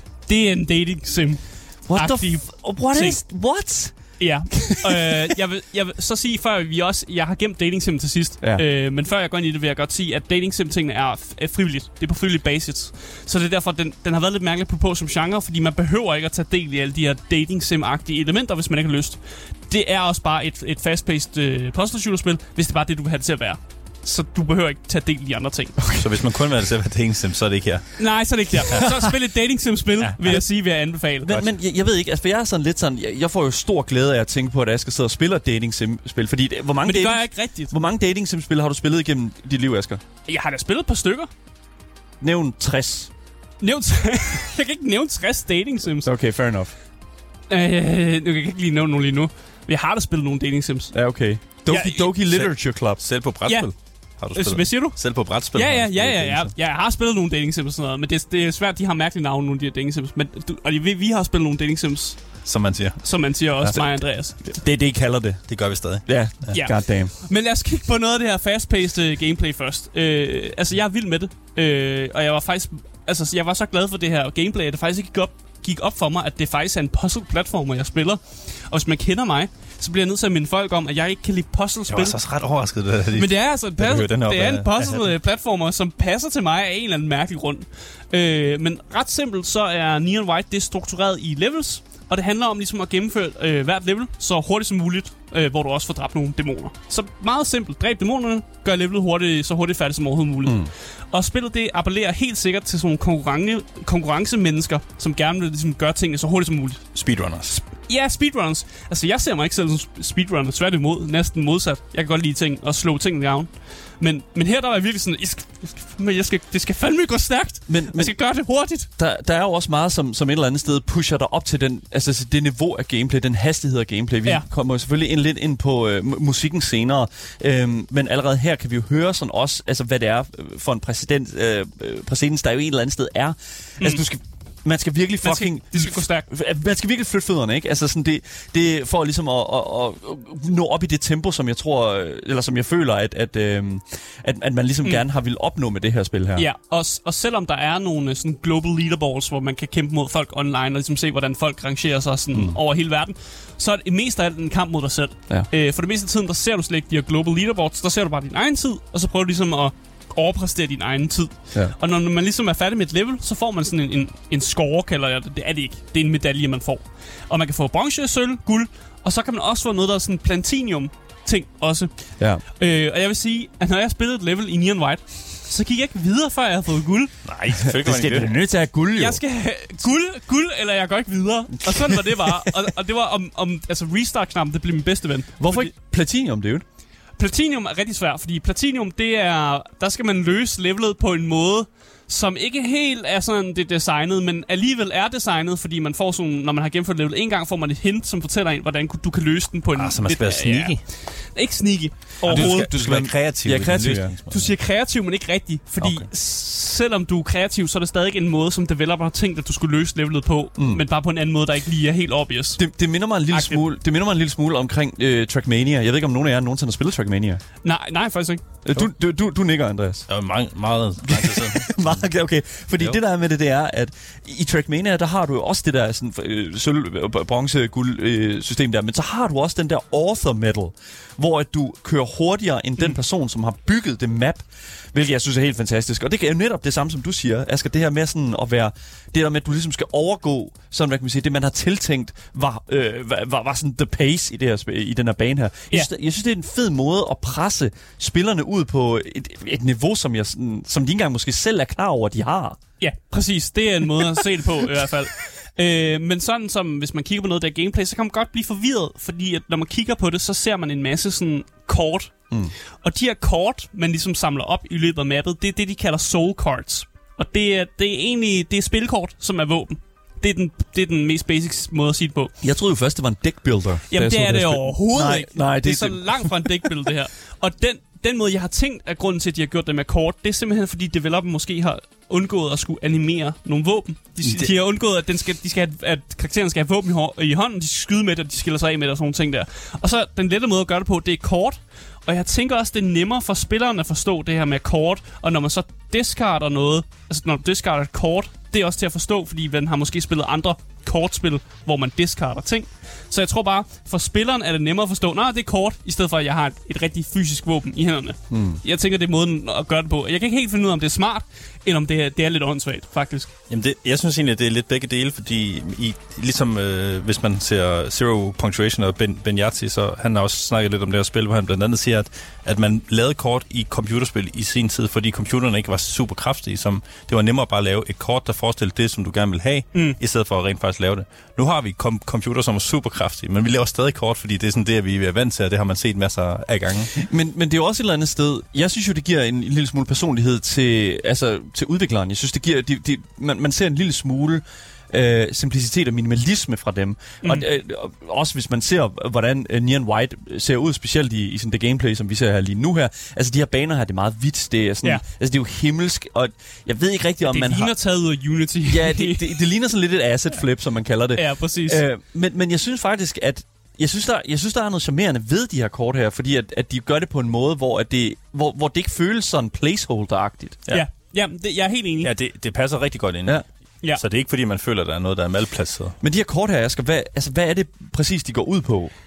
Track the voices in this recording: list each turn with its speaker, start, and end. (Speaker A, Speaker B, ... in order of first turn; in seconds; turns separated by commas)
Speaker A: 0.3-3.2, Speaker B: 1.9-5.2, Speaker A: 4.2-25.8, Speaker C: 25.9-28.4, Speaker A: 28.0-31.4, Speaker B: 31.2-40.0, Speaker A: 36.8-37.7, Speaker A: 40.2-41.3, Speaker B: 42.2-43.1, Speaker A: 43.6-46.1, Speaker B: 46.0-46.7, Speaker A: 47.5-50.9, Speaker B: 50.9-53.0, Speaker A: 51.5-52.1, Speaker C: 52.3-56.5, Speaker A: 53.4-62.4, Speaker C: 62.5-63.7, Speaker A: 63.0-64.4, Speaker B: 64.4-67.1, Speaker C: 65.5-66.5, Speaker A: 66.5-82.2, Speaker C: 81.9-85.1, Speaker A: 83.1-118.9, Speaker B: 100.4-100.7, Speaker C: 106.9-107.5, Speaker B: 117.7-118.1, Speaker B: 119.0-146.4, Speaker A: 135.2-136.3, Speaker A: 146.3-177.2, Speaker B: 152.3-152.6, Speaker B: 172.2-172.4, Speaker C: 177.2-178.3, Speaker B: 177.7-179.2, Speaker A: 178.9-185.7, Speaker B: 181.6-182.5, Speaker B: 185.4-186.6, Speaker A: 187.2-202.7, Speaker C: 199.7-200.8, Speaker B: 202.2-204.1, Speaker C: 202.2-204.5, Speaker A: 204.3-212.6, Speaker B: 210.6-210.8, Speaker B: 212.6-217.4, Speaker A: 213.3-213.6, Speaker A: 217.6-218.4, Speaker B: 218.6-220.1, Speaker C: 220.1-222.0, Speaker B: 221.0-252.6, Speaker A: 252.8-272.3, Speaker B: 272.4-276.5, Speaker A: 273.9-313.3, Speaker B: 308.3-308.6, Speaker C: 313.5-337.0, Speaker A: 329.7-330.0, Speaker B: 337.0-357.7, Speaker A: 357.3-359.4, Speaker B: 358.7-370.6, Speaker A: 361.1-361.8, Speaker A: 370.7-372.1, Speaker C: 372.0-375.9, Speaker B: 376.0-378.9